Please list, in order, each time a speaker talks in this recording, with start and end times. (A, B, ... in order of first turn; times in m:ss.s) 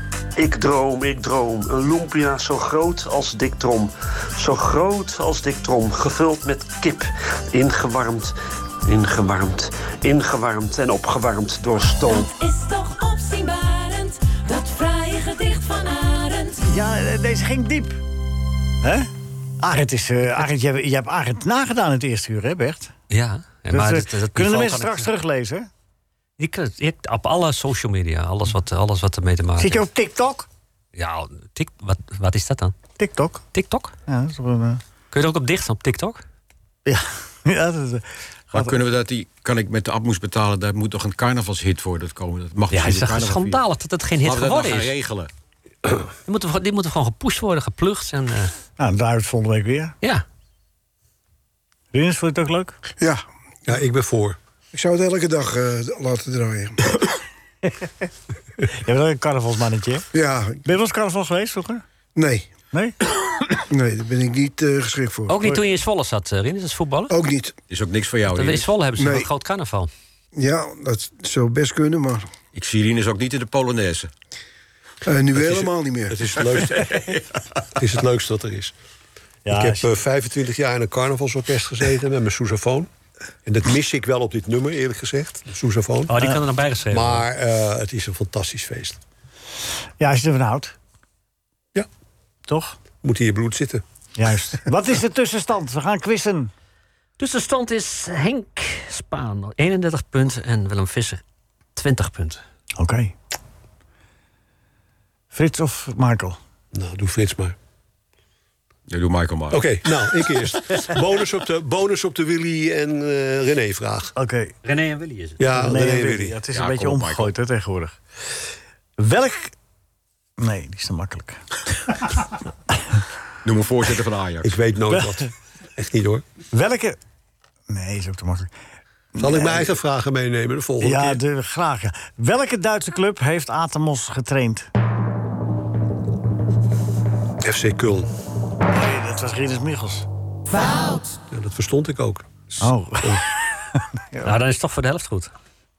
0:00.4-0:12.3 A
0:12.0-0:16.6 B
0:16.6-0:18.0 C
0:18.8-0:22.9 C
0:23.1-0:25.1 D
0:23.7-0:25.7 C
0:26.4-0:29.9 D
0:29.6-0:30.5 C
0:31.0-0:32.8 D
0:33.0-0:33.5 C
0:33.5-0:33.9 D
0:34.1-0:34.8 C
0:35.1-0:36.2 D
0:36.9-0:38.8 C
0:38.5-0:43.6 E
0:42.7-0:44.9 D
0:44.2-0:45.3 E
0:46.3-0:48.5 D
0:48.8-0:50.0 C
0:51.9-0:52.8 C
0:53.7-0:54.4 F
0:54.7-0:57.0 G
0:57.6-0:57.9 C
0:58.7-1:00.0 C
1:00.1-1:00.6 G
1:00.6-1:01.8 C
1:02.2-1:02.5 G
1:02.7-1:03.0 C
1:03.7-1:05.6 G
1:05.3-1:07.1 D
1:07.1-1:07.6 G
1:07.7-1:08.7 E
1:08.3-1:09.9 D
1:09.0-1:09.3 G
1:10.4-1:12.3 G
1:12.5-1:14.1 E
1:15.1-1:16.2 G
1:15.4-1:17.1 F
1:16.6-1:17.2 E
1:17.8-1:18.7 F
1:19.4-1:19.9 C
1:19.5-1:22.9 F
1:23.4-1:26.1 F
1:26.1-1:27.2 D
1:26.9-1:29.0 F
1:30.0-1:30.8 C
1:32.5-1:32.8 C
1:33.0-1:33.8 F
1:34.2-1:36.5 C
1:37.2-1:41.2 D
1:41.8-1:42.4 D
1:42.8-1:43.1 C
1:45.3-1:46.4 C
1:46.7-1:47.6 F
1:48.9-1:49.6 E
1:49.5-1:54.1 F
1:54.2-1:54.5 C
1:54.6-1:55.4 D
1:55.4-1:56.4 F
1:55.5-1:58.0 C
1:56.5-1:57.3 E
1:59.0-1:59.5 C
2:00.4-2:02.2 C
2:03.4-2:04.5 E
2:04.4-2:06.2 F
2:06.5-2:07.0 C
2:07.7-2:08.5 C
2:09.2-2:09.7 C
2:09.2-2:11.2 F
2:10.8-2:14.7 C
2:17.4-2:18.1 F
2:18.7-2:20.1 C
2:21.3-2:22.3 F
2:22.6-2:24.4 C
2:24.2-2:25.3 D